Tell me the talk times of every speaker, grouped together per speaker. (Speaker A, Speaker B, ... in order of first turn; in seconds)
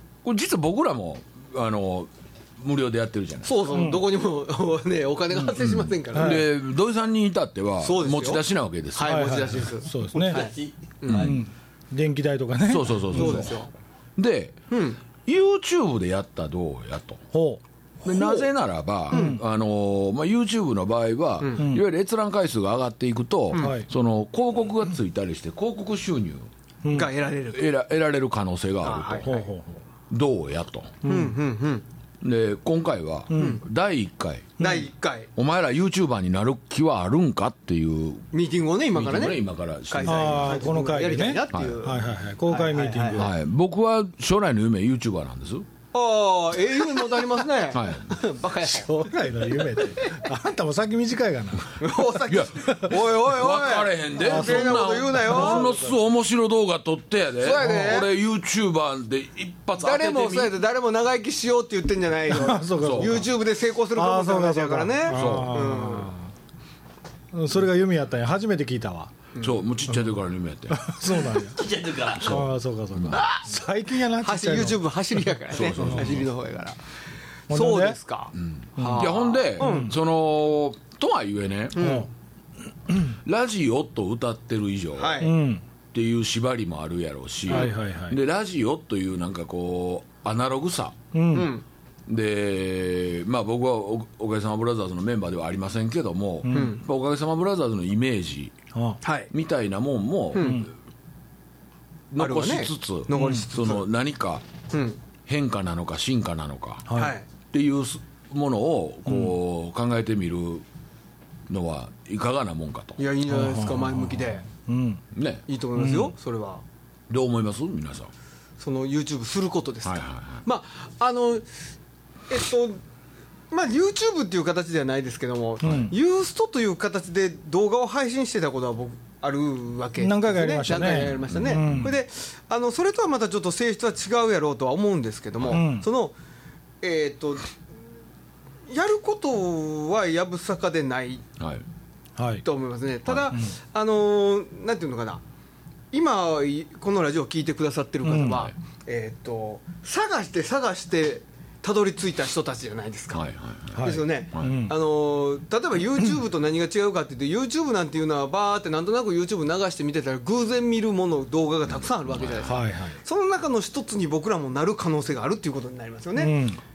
Speaker A: 0.2-3.5, 5.5-9.7, 11.1-11.4, 12.7-13.6, 14.2-14.6, 15.2-17.2, 18.0-26.5, 27.5-29.3, 30.1-31.0, 32.2-34.7, 35.4-38.3, 38.9-40.7, 41.5-41.8, 43.1-45.6, 47.7-48.2, 52.3-60.6, 62.8-63.2, 65.1-65.6, 69.4-70.9, 72.2-73.3, 75.5-76.3, 78.4-81.8, 83.2-85.3, 85.9-91.0, 92.1-98.5, 99.3-100.7, 102.1-104.4, 105.3-107.0, 107.5-110.7, 111.5-113.0, 115.1-115.5, 117.1-118.1, 119.8-120.4, 125.6-125.9, 130.8-131.9, 141.4-141.6, 143.1-143.3, 153.1-154.6, 161.7-162.6
Speaker B: 3.5-6.5, 7.8-8.4, 8.9-11.4, 13.1-13.7, 14.7-15.0, 18.1-18.5, 19.1-19.4, 21.4-21.7, 23.5-23.8, 26.9-27.7, 28.8-29.5, 31.0-31.9, 33.3-33.6, 34.6-35.3, 38.3-43.3, 45.9-50.1, 51.8-55.9, 57.4-58.1, 59.8-66.2, 73.1-73.5, 74.2-76.8, 77.5-80.0, 81.7-82.1, 85.0-85.4, 91.3-91.6, 96.5-96.8, 99.0-99.3, 100.3-100.7, 102.2-103.8, 104.7-105.0, 106.9-107.3, 113.0-114.5, 115.5-116.6, 118.6-121.5, 122.3-122.8, 123.5-136.1, 136.8-137.5, 138.7-141.2, 142.4-145.2, 145.9-153.2, 153.8-166.4
Speaker C: 3.7-4.1, 6.1-6.5, 9.0-10.5, 11.1-13.5, 17.3-17.6, 19.1-19.4, 23.6-23.9, 26.8-27.1, 29.2-29.7, 31.1-31.4, 33.3-33.6, 34.6-34.9, 40.0-43.3, 48.6-51.7, 54.2-56.0, 57.6-58.0, 62.3-63.3, 64.0-66.3, 67.3-69.1, 70.7-71.6, 72.2-74.8, 75.7-76.2, 77.5-78.0, 78.8-79.9, 81.8-82.1, 82.9-83.2, 85.2-85.6, 87.5-88.2, 91.1-91.5, 96.4-96.8, 100.4-100.7, 103.1-103.5, 106.9-107.2, 113.3-115.0, 115.8-116.1, 125.6-125.9, 130.0-132.0, 135.5-135.9, 142.2-142.4, 148.0-148.5, 153.8-154.8, 162.4-163.0, 166.2-166.6
Speaker D: 10.1-11.4, 71.5-72.4